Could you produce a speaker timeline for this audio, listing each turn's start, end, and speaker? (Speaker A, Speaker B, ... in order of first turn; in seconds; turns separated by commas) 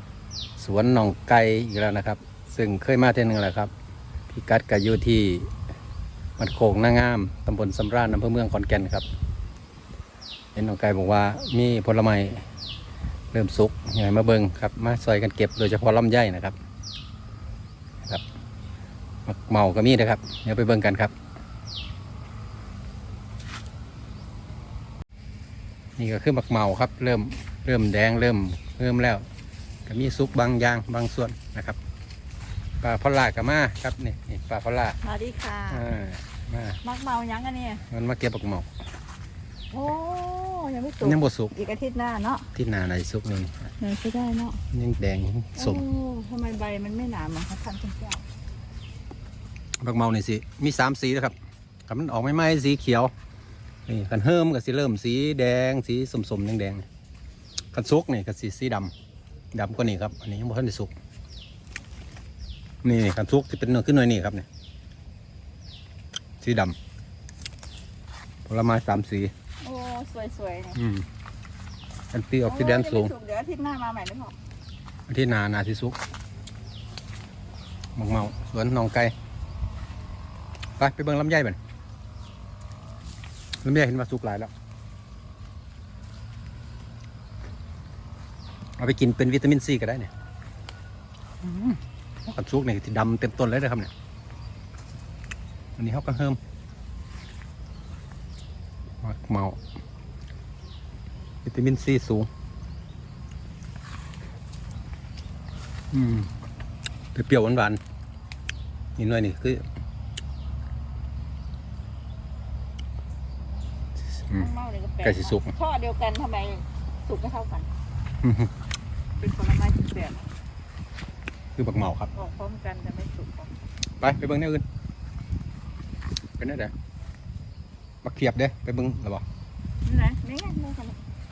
Speaker A: 0.6-3.7, Speaker A: 4.3-5.5, Speaker A: 6.4-9.1, Speaker A: 10.5-12.4, Speaker A: 13.3-16.6, Speaker A: 19.2-21.1, Speaker A: 26.0-29.3, Speaker A: 29.9-31.8, Speaker A: 32.8-35.0, Speaker B: 35.0-35.8, Speaker A: 35.7-36.8, Speaker B: 36.8-37.8, Speaker A: 37.9-38.7, Speaker B: 39.7-42.5, Speaker A: 41.0-41.5, Speaker A: 42.5-43.7, Speaker B: 43.8-44.6, Speaker A: 44.7-45.8, Speaker B: 45.6-48.2, Speaker A: 49.8-51.4, Speaker A: 51.9-53.1, Speaker A: 53.9-56.9, Speaker A: 57.7-58.9, Speaker A: 59.5-60.9, Speaker A: 62.8-64.5, Speaker A: 66.4-66.8, Speaker A: 68.5-69.3, Speaker B: 69.6-70.8, Speaker A: 70.8-71.1, Speaker A: 72.1-73.1, Speaker B: 72.5-74.3, Speaker A: 75.1-76.0, Speaker A: 78.0-79.1, Speaker A: 80.8-81.6, Speaker A: 83.6-84.5, Speaker A: 88.8-90.1, Speaker A: 91.4-93.9, Speaker A: 95.8-96.4, Speaker A: 99.0-99.6, Speaker A: 101.5-102.3, Speaker A: 105.9-106.3, Speaker A: 107.1-107.8, Speaker A: 109.0-109.6, Speaker B: 114.3-117.7, Speaker A: 115.0-115.5, Speaker A: 118.2-118.5, Speaker B: 119.2-120.3, Speaker A: 121.5-122.1, Speaker B: 122.1-123.5, Speaker A: 124.0-124.6, Speaker A: 126.4-126.7, Speaker A: 128.0-129.2, Speaker B: 129.8-131.0